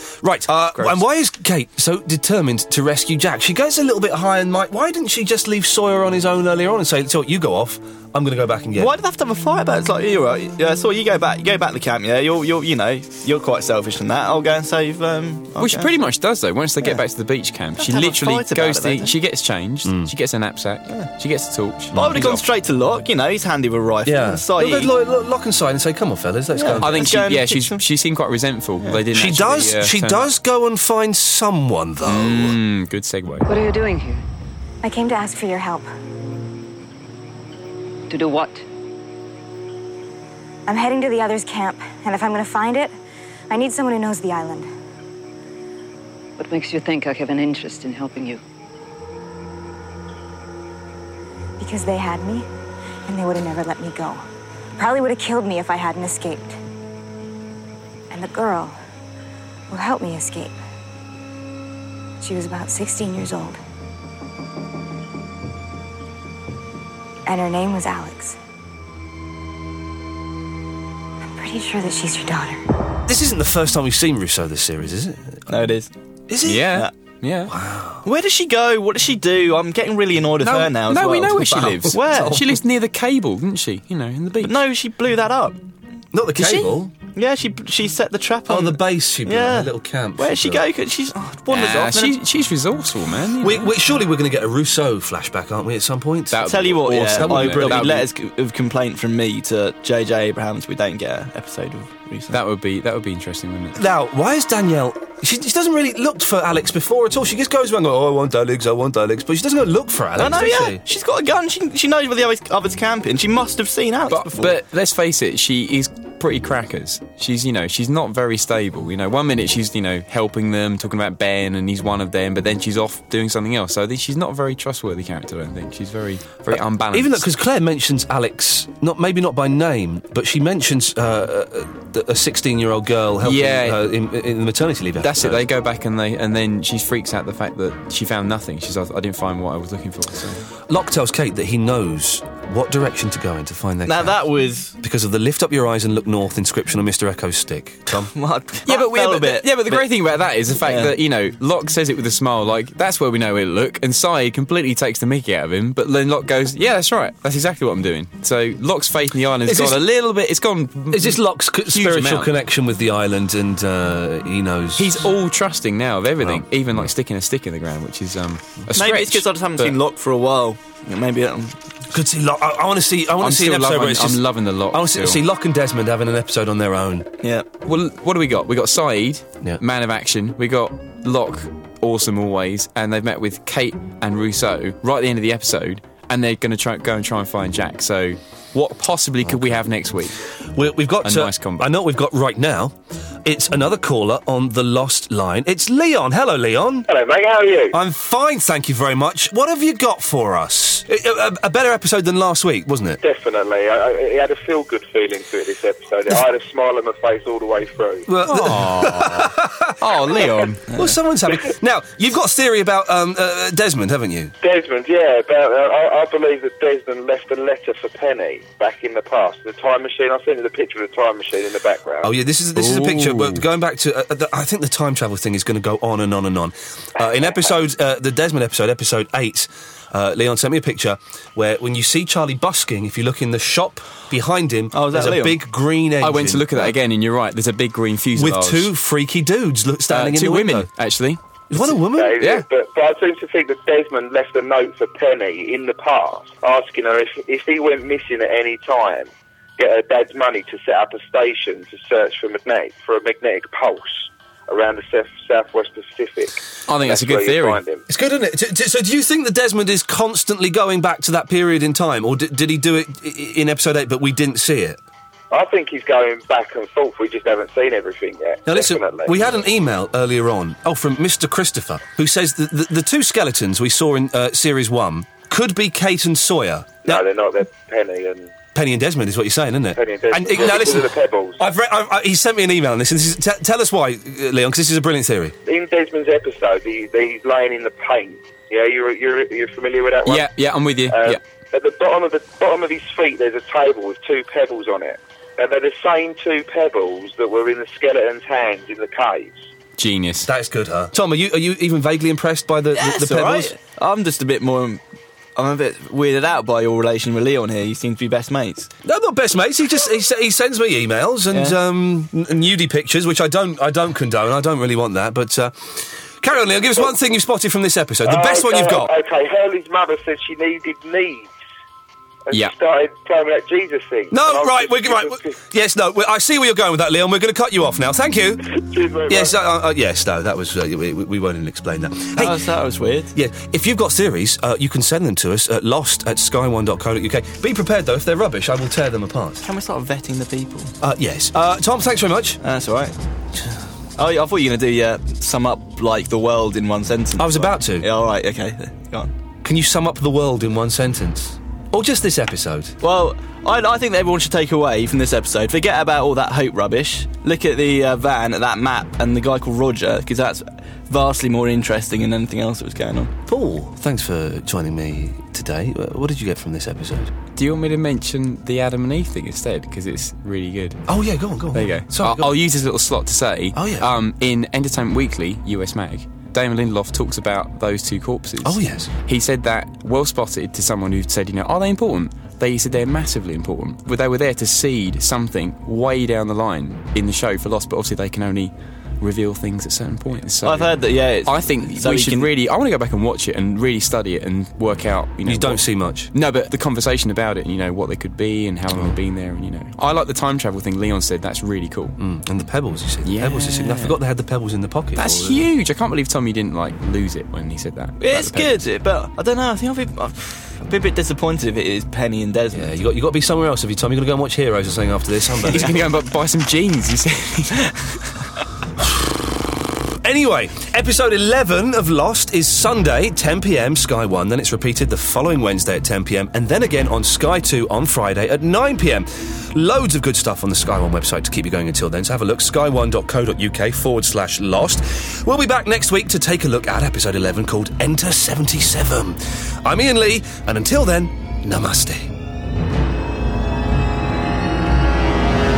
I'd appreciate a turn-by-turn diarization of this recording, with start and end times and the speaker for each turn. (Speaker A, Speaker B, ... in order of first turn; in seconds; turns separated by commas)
Speaker A: 0.2-8.9, Speaker B: 0.7-1.0, Speaker C: 8.8-15.9, Speaker B: 15.6-22.4, Speaker C: 17.8-19.1, Speaker A: 19.8-20.1, Speaker C: 21.9-24.9, Speaker A: 24.1-27.1, Speaker C: 26.5-27.8, Speaker B: 26.8-30.3, Speaker A: 29.1-32.6, Speaker B: 32.0-33.5, Speaker D: 33.5-34.2, Speaker E: 34.8-35.9, Speaker D: 38.1-38.6, Speaker E: 40.7-42.9, Speaker E: 43.5-44.7, Speaker D: 46.4-48.4, Speaker E: 51.6-52.5, Speaker E: 53.1-54.2, Speaker E: 54.8-56.6, Speaker E: 58.1-58.7, Speaker E: 59.7-60.5, Speaker E: 62.2-63.6, Speaker E: 67.2-68.3, Speaker E: 71.4-72.6, Speaker A: 73.0-75.4, Speaker C: 75.5-75.9, Speaker A: 76.3-76.8, Speaker B: 76.4-77.5, Speaker A: 77.5-78.0, Speaker C: 78.0-82.4, Speaker B: 80.4-84.6, Speaker A: 81.7-82.5, Speaker C: 84.4-85.6, Speaker A: 86.1-86.9, Speaker C: 86.3-92.2, Speaker A: 88.5-90.7, Speaker B: 91.5-93.7, Speaker A: 93.4-98.0, Speaker B: 96.3-98.1, Speaker C: 96.4-102.4, Speaker B: 102.3-103.8, Speaker A: 103.7-110.8, Speaker C: 110.2-114.5, Speaker B: 114.1-127.3, Speaker A: 126.9-135.4, Speaker B: 133.2-133.9, Speaker B: 135.0-140.4, Speaker A: 140.7-144.2, Speaker C: 143.8-144.7, Speaker A: 144.8-148.1, Speaker C: 147.9-149.9, Speaker B: 148.7-162.3, Speaker C: 150.6-150.9, Speaker A: 159.4-159.8, Speaker A: 160.9-165.0, Speaker B: 164.8-169.8, Speaker A: 166.2-166.9, Speaker C: 168.7-171.6, Speaker A: 171.9-177.1, Speaker B: 173.2-175.2, Speaker B: 177.6-190.2, Speaker A: 189.2-189.6, Speaker A: 190.5-196.9, Speaker B: 191.0-191.7, Speaker F: 196.9-197.8, Speaker A: 197.7-203.0, Speaker F: 203.0-208.1, Speaker A: 208.1-214.3, Speaker B: 208.2-210.6, Speaker C: 210.7-211.0, Speaker F: 214.4-222.1, Speaker A: 222.0-236.7, Speaker B: 222.6-223.4, Speaker F: 227.0-227.3, Speaker C: 234.7-235.4, Speaker B: 236.0-238.7, Speaker A: 238.2-240.7, Speaker B: 239.9-241.2, Speaker A: 241.5-242.2, Speaker F: 241.9-257.9, Speaker B: 242.2-242.4, Speaker B: 256.7-257.6, Speaker A: 257.9-264.8, Speaker F: 265.3-269.2, Speaker A: 268.4-277.0, Speaker F: 276.8-278.3, Speaker A: 278.5-285.3, Speaker F: 279.7-281.4, Speaker F: 285.4-290.3, Speaker B: 290.1-291.2, Speaker F: 290.9-299.4, Speaker B: 299.8-300.3, Speaker A: 300.2-303.5, Speaker C: 302.7-304.8, Speaker C: 305.4-308.7, Speaker A: 308.8-318.9, Speaker F: 318.0-321.3, Speaker F: 322.3-325.4, Speaker A: 324.1-328.5, Speaker F: 328.4-329.4, Speaker A: 329.1-332.4, Speaker C: 332.2-333.1, Speaker A: 333.1-339.4, Speaker C: 339.4-340.7, Speaker A: 340.8-342.4, Speaker C: 342.4-342.9, Speaker C: 344.0-349.1, Speaker A: 347.2-347.9, Speaker A: 349.4-352.8, Speaker C: 352.8-363.1, Speaker A: 363.3-367.1, Speaker B: 367.4-370.8, Speaker A: 370.9-372.3, Speaker B: 371.5-390.7, Speaker A: 373.5-373.9, Speaker A: 378.4-378.9, Speaker C: 390.4-392.3, Speaker B: 391.2-401.9, Speaker A: 395.2-396.1, Speaker A: 398.7-398.9, Speaker A: 402.0-405.4, Speaker B: 403.0-403.9, Speaker B: 404.9-408.6, Speaker C: 408.0-412.7, Speaker A: 412.5-415.8, Speaker B: 415.4-418.2, Speaker A: 420.0-442.1